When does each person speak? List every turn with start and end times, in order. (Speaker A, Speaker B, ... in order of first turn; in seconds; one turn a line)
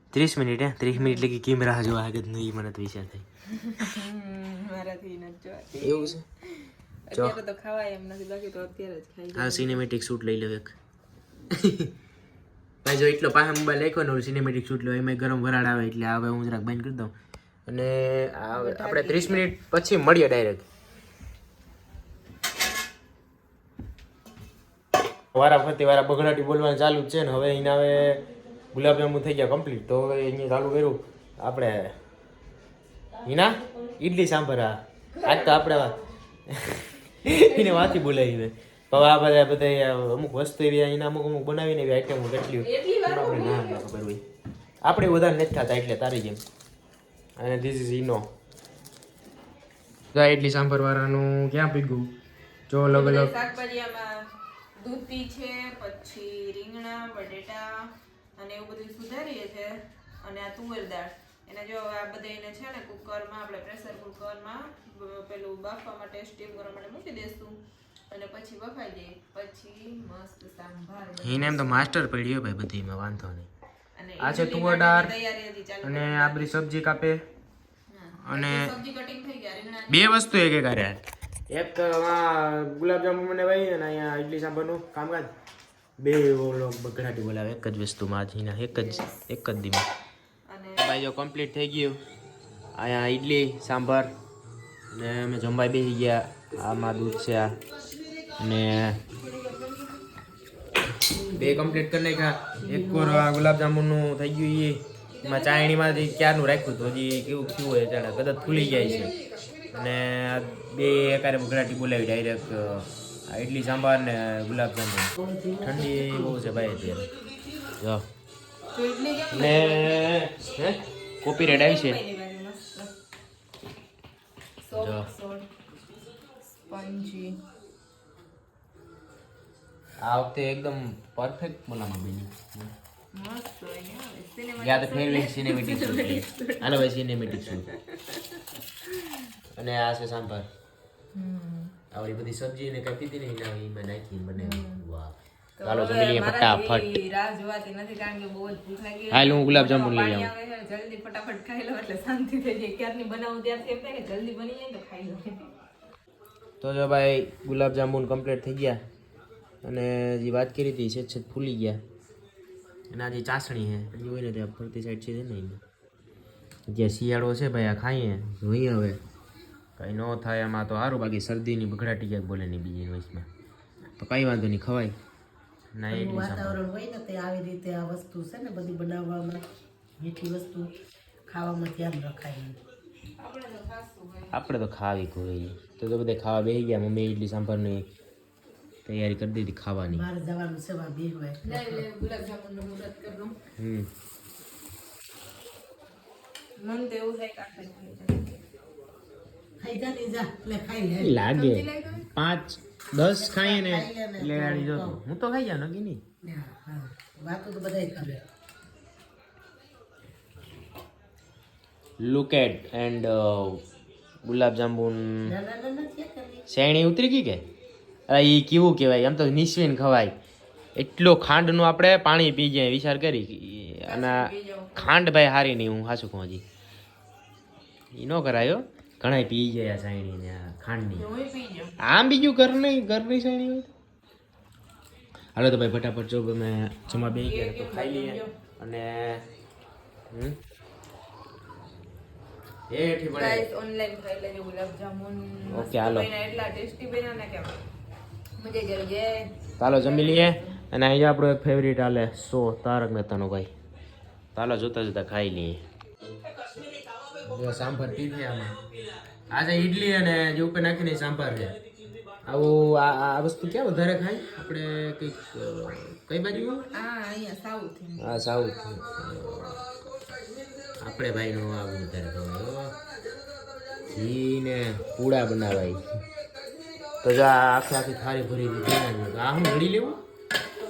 Speaker A: 0.1-3.3
Speaker B: 0.9-1.3
Speaker B: 3.5-9.8
Speaker A: 5.8-6.2
Speaker A: 9.3-10.8
Speaker A: 11.5-11.9
Speaker A: 12.8-17.1
Speaker A: 17.7-20.6
Speaker B: 18.5-19.5
Speaker A: 25.3-31.9
Speaker A: 33.2-36.0
Speaker B: 33.6-33.9
Speaker B: 35.2-35.8
Speaker A: 36.5-44.2
Speaker B: 37.5-37.9
Speaker B: 42.6-43.9
Speaker A: 44.8-46.4
Speaker A: 47.4-48.3
Speaker A: 50.1-52.1
Speaker A: 52.7-53.3
Speaker B: 52.8-71.9
Speaker A: 71.2-73.5
Speaker B: 74.0-76.5
Speaker A: 74.2-75.1
Speaker A: 75.8-77.2
Speaker B: 77.9-80.3
Speaker A: 78.2-78.7
Speaker A: 79.9-85.3
Speaker A: 86.0-89.9
Speaker B: 88.7-89.3
Speaker B: 90.5-90.8
Speaker A: 90.8-92.0
Speaker A: 92.8-94.1
Speaker A: 94.9-97.6
Speaker A: 98.4-99.0
Speaker B: 99.2-100.0
Speaker C: 101.1-101.7
Speaker A: 101.3-109.1
Speaker C: 102.7-103.2
Speaker B: 105.1-105.9
Speaker A: 109.7-117.1
Speaker C: 115.3-116.4
Speaker B: 118.7-120.0
Speaker A: 119.3-122.0
Speaker B: 121.4-122.9
Speaker B: 124.6-125.5
Speaker A: 124.8-125.1
Speaker B: 126.7-127.4
Speaker A: 130.0-132.7
Speaker B: 133.1-139.3
Speaker A: 134.6-137.7
Speaker A: 139.6-140.5
Speaker B: 141.2-141.8
Speaker A: 141.9-146.9
Speaker B: 144.4-144.8
Speaker B: 145.6-155.5
Speaker A: 149.1-150.3
Speaker A: 156.6-158.8
Speaker A: 159.6-161.8
Speaker A: 162.9-165.6
Speaker A: 166.7-169.0
Speaker A: 169.8-173.3
Speaker A: 174.0-174.9
Speaker A: 175.8-176.6
Speaker C: 175.9-179.4
Speaker C: 180.0-180.7
Speaker C: 181.3-182.6
Speaker B: 183.2-184.4
Speaker A: 184.3-187.9
Speaker A: 188.9-190.1
Speaker C: 189.9-191.8
Speaker B: 191.4-193.4
Speaker A: 193.6-193.9
Speaker B: 196.6-198.4
Speaker C: 199.6-201.2
Speaker A: 201.0-206.0
Speaker B: 201.3-202.1
Speaker C: 203.0-205.0
Speaker C: 206.2-208.2
Speaker A: 212.0-213.6
Speaker A: 214.2-215.4
Speaker C: 215.2-216.4
Speaker A: 216.5-217.4
Speaker A: 218.1-220.1
Speaker A: 220.8-226.4
Speaker B: 223.8-225.0
Speaker A: 227.9-231.1
Speaker B: 231.0-231.8
Speaker A: 231.8-233.7
Speaker A: 235.3-239.2
Speaker B: 236.9-238.3
Speaker A: 240.1-240.4
Speaker A: 242.7-243.5
Speaker B: 243.1-247.6
Speaker A: 245.5-246.1
Speaker B: 248.4-250.6
Speaker A: 249.6-253.5
Speaker A: 254.3-255.6
Speaker A: 257.2-258.6
Speaker A: 259.3-261.6
Speaker A: 262.2-266.7
Speaker B: 266.7-268.2
Speaker A: 268.0-269.6
Speaker A: 270.8-272.8
Speaker A: 273.9-275.9
Speaker A: 277.0-280.0